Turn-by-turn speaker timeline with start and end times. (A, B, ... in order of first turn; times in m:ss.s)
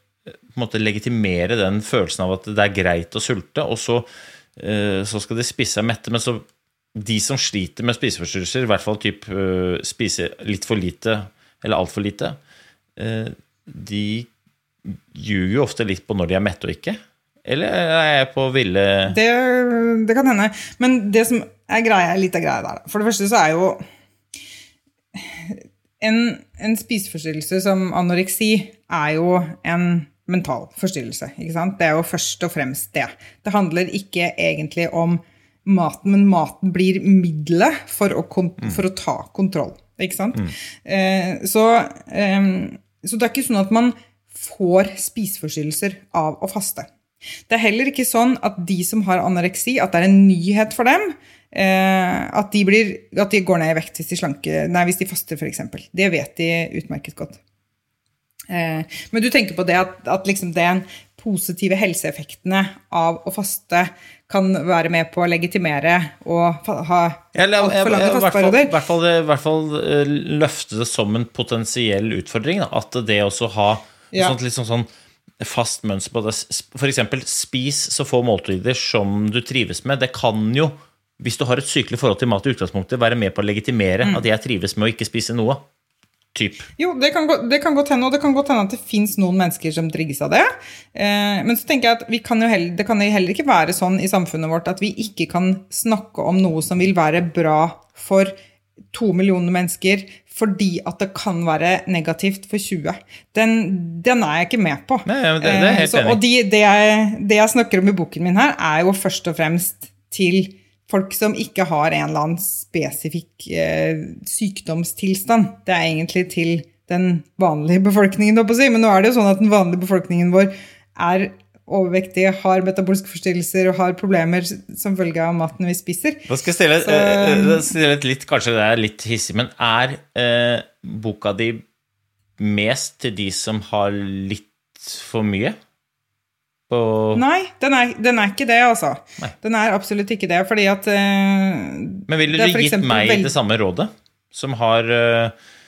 0:00.5-0:06.4 A
0:07.0-0:12.4 A
0:13.0-0:14.3 A
0:14.9-0:19.2 A
0:19.1-0:23.8 B
0:25.2-0:46.9 B
0:47.5-0:57.4 B
0:58.5-1:08.7 B
1:07.4-1:14.9 A
1:15.4-1:25.6 A
1:26.3-1:26.7 A
1:26.8-1:38.4 B
1:38.9-2:06.3 B
1:45.0-1:46.2 A
2:06.3-2:11.6 A
2:06.8-2:07.7 B
2:12.4-2:15.6 A
2:16.7-2:17.2 A
2:17.1-2:23.3 B
2:22.1-2:25.3 A